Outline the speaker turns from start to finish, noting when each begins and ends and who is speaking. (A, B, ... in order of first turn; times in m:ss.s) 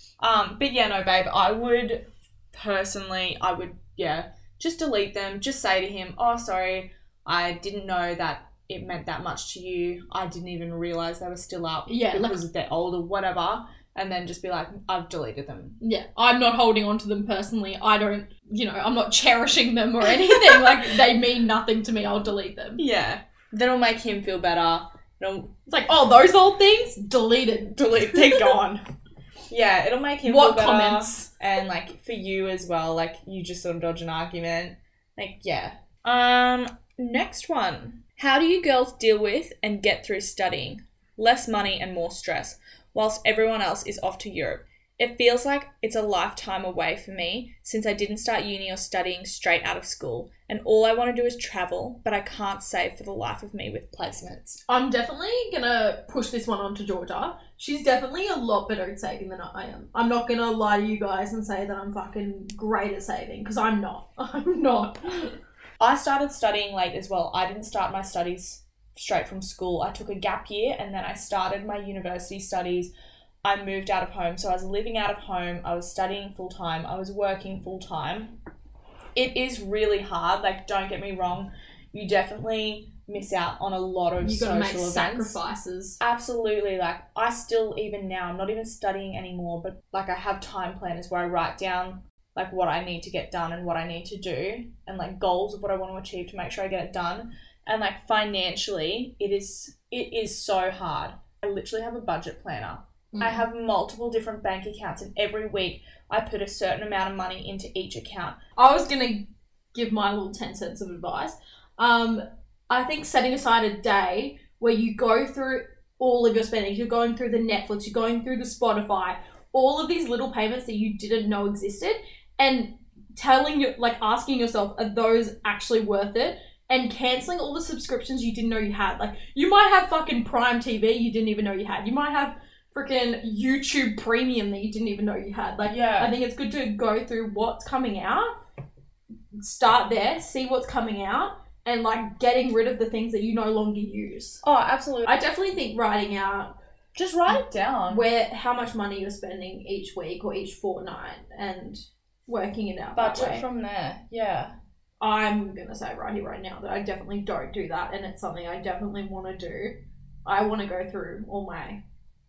0:00.2-0:15.8 A
0:11.9-0:12.4 B
0:15.8-0:22.8 B
0:20.1-0:20.8 A
0:22.8-0:25.5 A
0:25.7-0:28.5 B
0:27.8-0:28.8 A
0:29.5-0:54.6 A
0:30.2-0:31.3 B
0:54.7-1:05.4 B
1:05.8-1:12.9 A
1:13.4-1:18.4 A
1:19.2-1:25.4 A
1:24.2-1:26.0 B
1:26.0-1:48.4 A
1:43.1-1:43.5 B
1:48.6-2:18.3 B
2:15.7-2:16.1 A
2:19.4-2:24.4 B
2:24.4-2:25.2 A
2:25.1-2:26.5 B
2:27.0-2:28.0 A
2:27.9-2:33.5 B
2:33.0-2:34.6 A
2:35.0-2:41.8 B